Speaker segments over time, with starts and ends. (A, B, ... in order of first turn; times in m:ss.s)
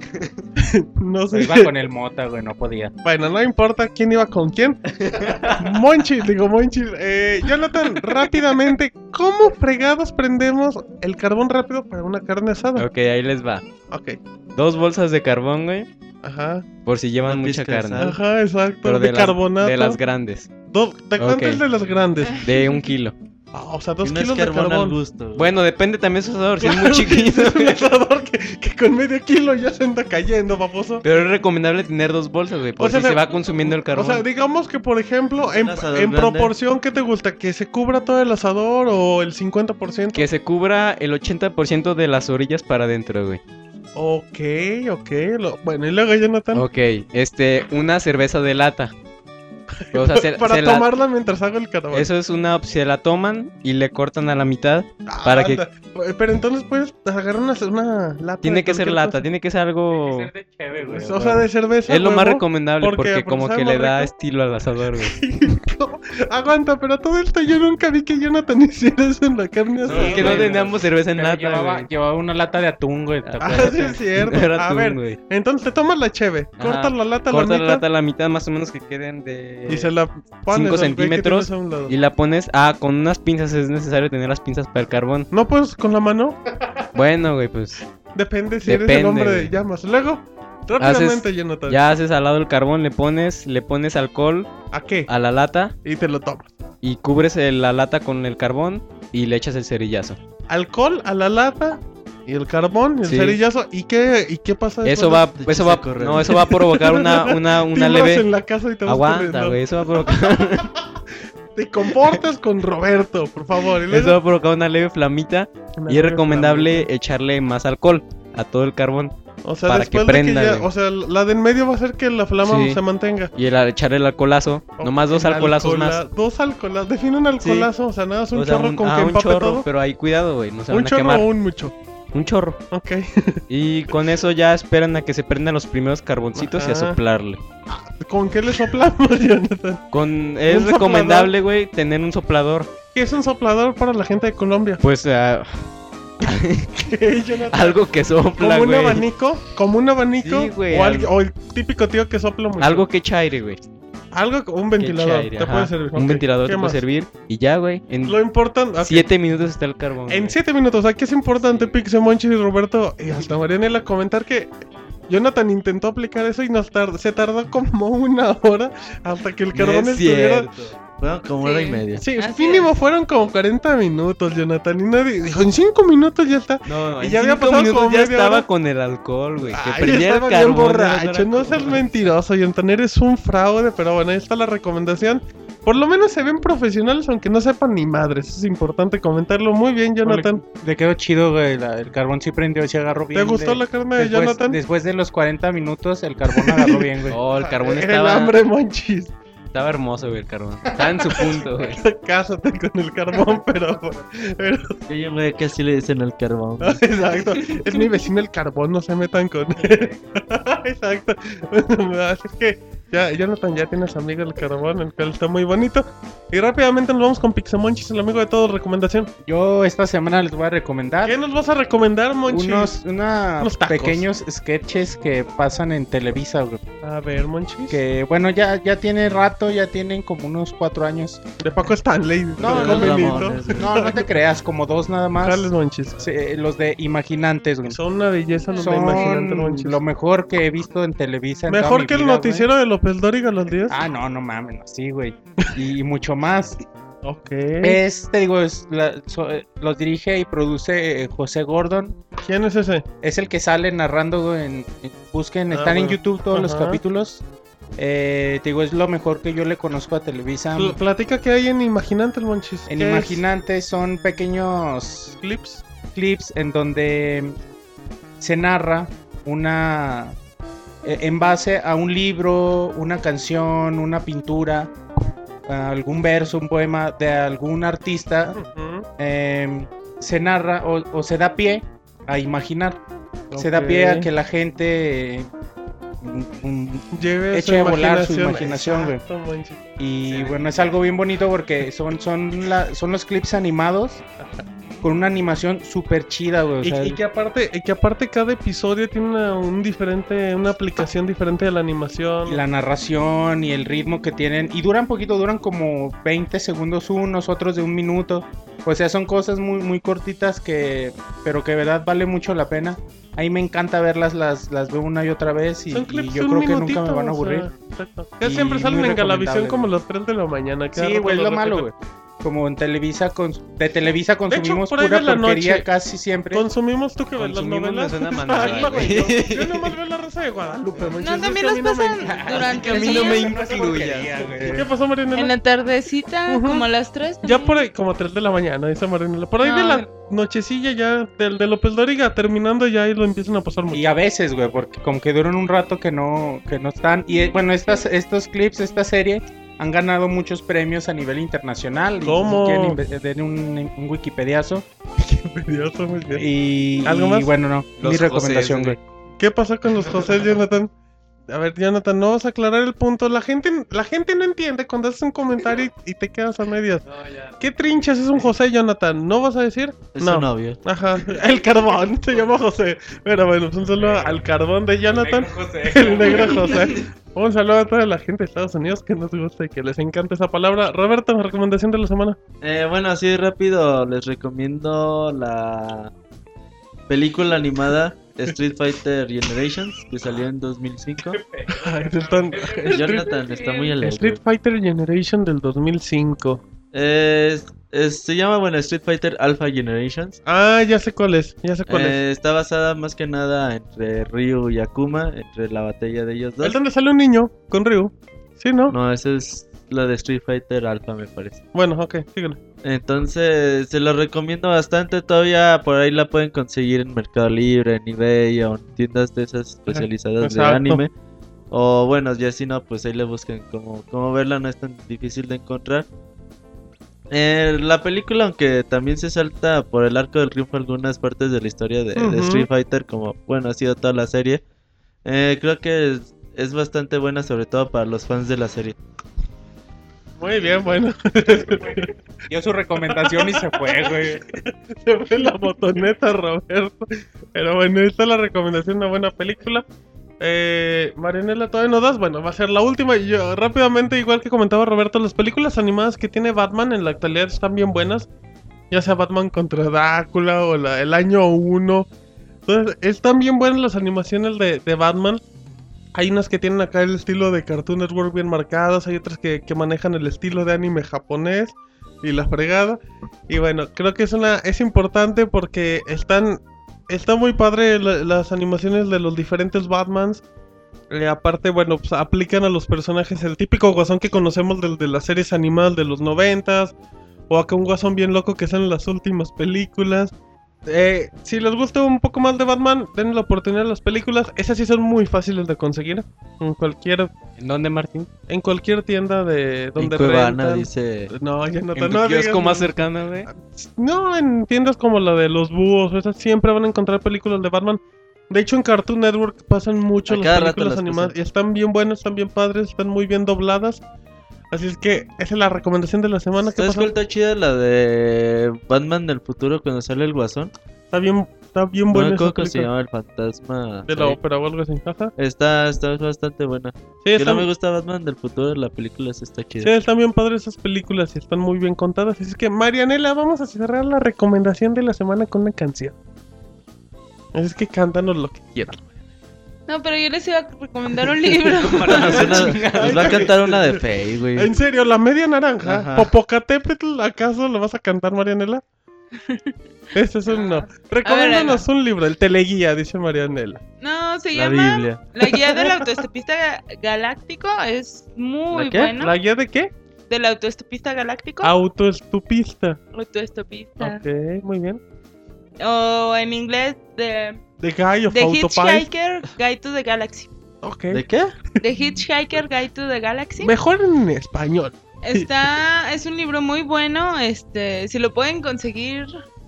0:00.6-0:01.7 A
0:01.3-0:02.9 B
0:03.0-0:04.8 A
0:05.0-0:05.6 C
0:05.4-0:12.9 A
0:12.8-0:13.6 C
0:13.9-0:14.2 A
0:14.6-0:15.9 C
0:16.2-0:16.7 A
0:16.8-0:18.1 C
0:17.2-0:18.2 D
0:18.0-0:20.0 A
0:18.8-0:20.5 C
0:20.7-0:22.5 A
0:21.2-0:21.6 C
0:22.3-0:23.2 C
0:23.5-0:25.0 A
0:24.0-0:25.5 D
0:25.3-0:27.9 C
0:26.6-0:31.0 A
0:31.0-0:34.2 C
0:32.8-0:40.2 A
0:35.4-0:36.5 D
0:40.1-0:43.4 C
0:43.9-0:46.6 A
0:46.5-0:48.9 C
0:49.8-0:52.1 A
0:49.9-0:50.9 C
0:51.9-0:55.6 C
0:55.1-0:59.2 A
0:58.4-1:00.3 C
0:59.9-1:01.4 B
1:00.9-1:04.1 A
1:01.2-1:05.2 C
1:04.9-1:10.6 A
1:09.8-1:11.9 C
1:09.8-1:14.0 B
1:13.2-1:15.2 C
1:13.4-1:17.8 A
1:16.6-1:19.9 C
1:19.7-1:21.9 A
1:20.5-1:25.3 C
1:25.3-1:26.4 A
1:26.9-1:27.8 C
1:28.1-1:31.8 A
1:28.6-1:29.5 C
1:30.8-1:34.5 C
1:34.7-1:35.1 A
1:35.1-1:35.7 C
1:35.8-1:36.5 A
1:36.8-1:40.2 C
1:40.5-1:45.3 A
1:43.0-1:43.4 C
1:44.8-1:48.3 C
1:45.3-1:46.5 D
1:46.3-1:51.0 A
1:48.8-1:50.7 C
1:51.5-1:54.2 A
1:53.9-2:00.7 C
1:55.8-1:56.9 A
1:59.4-2:03.3 A
2:02.4-2:02.8 C
2:03.3-2:06.0 C
2:04.8-2:09.6 A
2:07.4-2:07.7 C
2:08.3-2:11.3 C
2:10.7-2:11.7 A
2:12.1-2:12.6 C
2:12.7-2:13.4 A
2:13.5-2:17.4 C
2:16.4-2:17.0 A
2:17.7-2:19.8 A
2:19.9-2:22.7 C
2:20.4-2:21.3 A
2:22.9-2:24.8 A
2:24.8-2:25.7 C
2:26.2-2:26.9 C
2:26.8-2:32.8 A
2:27.5-2:29.0 C
2:30.2-2:31.1 C
2:32.6-2:33.6 C
2:34.1-2:36.8 A
2:34.8-2:38.2 C
2:38.0-2:39.1 A
2:38.8-2:40.4 C
2:40.1-2:44.5 A
2:45.1-2:50.5 A
2:49.5-2:50.7 C
2:49.5-2:49.8 D
2:51.0-2:52.0 D
2:51.4-2:52.7 E
2:52.0-2:58.4 A
2:56.6-3:02.1 C
2:59.5-3:10.4 A
2:59.8-3:01.2 D
3:10.0-3:17.2 B
3:13.1-3:14.6 A
3:16.3-3:19.1 A
3:17.1-3:18.4 C
3:19.5-3:21.8 C
3:21.1-3:24.8 A
3:24.9-3:26.8 D
3:26.6-3:39.1 A
3:39.2-3:41.2 B
3:41.0-3:42.7 A
3:42.3-3:46.6 B
3:43.4-3:44.0 A
3:46.8-3:47.8 A
3:47.7-3:51.2 B
3:51.4-3:54.1 A
3:52.4-3:57.8 B
3:52.4-3:53.8 D
3:55.2-3:56.0 A
3:57.7-3:59.8 A
3:58.6-4:02.5 B
4:01.5-4:03.7 A
4:03.7-4:06.6 B
4:07.0-4:07.8 A
4:07.6-4:12.0 B
4:12.2-4:12.8 A
4:13.0-4:17.2 B
4:15.5-4:16.8 A
4:17.8-4:20.8 B
4:20.6-4:23.2 A
4:22.7-4:25.2 B
4:25.2-4:25.6 A
4:25.9-4:27.4 B
4:28.2-4:30.2 B
4:30.8-4:34.7 B
4:35.5-4:38.4 B
4:38.3-4:38.9 A
4:39.0-4:42.8 B
4:43.3-4:44.1 A
4:43.4-4:45.3 B
4:46.0-4:49.0 B
4:46.9-4:49.6 A
4:49.8-4:54.0 B
4:54.8-4:57.0 B
4:56.6-5:02.4 A
5:02.2-5:17.5 B
5:15.7-5:21.7 A
5:18.2-5:19.7 B
5:20.7-5:26.5 B
5:24.3-5:25.6 A
5:26.3-5:32.6 A
5:27.2-5:29.7 C
5:31.0-5:33.4 E
5:32.0-5:34.7 B
5:32.5-5:34.6 C
5:34.4-5:35.3 A
5:35.1-5:37.7 E
5:36.3-5:36.7 A
5:37.2-5:43.8 A
5:39.4-5:39.9 E
5:43.7-5:54.6 B
5:52.0-5:52.8 A
5:55.0-5:56.3 A
5:56.1-5:58.8 B
5:56.8-5:57.3 A
5:57.8-5:58.8 C
5:59.2-6:00.7 A
6:01.3-6:06.8 A
6:06.9-6:07.3 B
6:07.4-6:22.2 A
6:09.9-6:10.6 D
6:13.8-6:14.1 B
6:14.9-6:16.8 B
6:22.4-6:25.9 D
6:26.9-6:31.2 D
6:31.3-6:33.0 B
6:31.5-6:33.2 A
6:32.7-6:34.2 D
6:33.8-6:36.4 A
6:36.7-6:40.2 D
6:40.2-6:42.0 A
6:41.7-6:46.6 D
6:46.4-6:48.8 A
6:48.7-6:51.4 D
6:51.5-6:52.4 A
6:52.6-7:00.9 D
6:59.7-7:00.8 A
7:01.5-7:05.9 D
7:07.1-7:14.4 D
7:12.0-7:12.5 A
7:15.0-7:18.8 D
7:20.2-7:22.0 A
7:21.6-7:24.3 B
7:22.9-7:29.6 A
7:30.2-7:38.1 A
7:38.7-7:41.9 A
7:42.4-7:45.2 A
7:45.9-8:00.2 A
8:00.9-8:06.7 A
8:07.3-8:10.1 A
8:10.6-8:17.1 A
8:17.4-8:18.1 C
8:18.3-8:33.8 A
8:19.8-8:21.1 D
8:21.7-8:23.3 C
8:30.1-8:31.1 D
8:34.5-8:36.9 A
8:36.5-8:40.5 D
8:40.9-8:42.7 A
8:41.9-8:44.2 D
8:43.9-8:45.1 A
8:45.2-8:49.7 D
8:47.0-8:47.5 A
8:49.6-8:56.0 A
8:57.3-8:58.9 A
8:59.7-9:02.6 E
9:01.1-9:08.6 A
9:01.6-9:03.3 C
9:01.8-9:04.5 D
9:05.6-9:06.1 D
9:09.1-9:09.5 E
9:09.9-9:13.6 A
9:10.3-9:11.6 E
9:13.8-9:19.2 E
9:14.3-9:15.1 D
9:15.2-9:15.8 A
9:18.5-9:18.9 D
9:18.9-9:19.7 A
9:20.1-9:21.5 E
9:21.4-9:22.8 A
9:22.9-9:24.0 E
9:23.8-9:24.8 A
9:25.6-9:27.4 E
9:27.6-9:28.9 A
9:28.1-9:30.3 E
9:30.6-9:31.0 A
9:30.9-9:31.4 D
9:31.6-9:33.5 E
9:33.4-9:35.3 A
9:35.0-9:39.1 E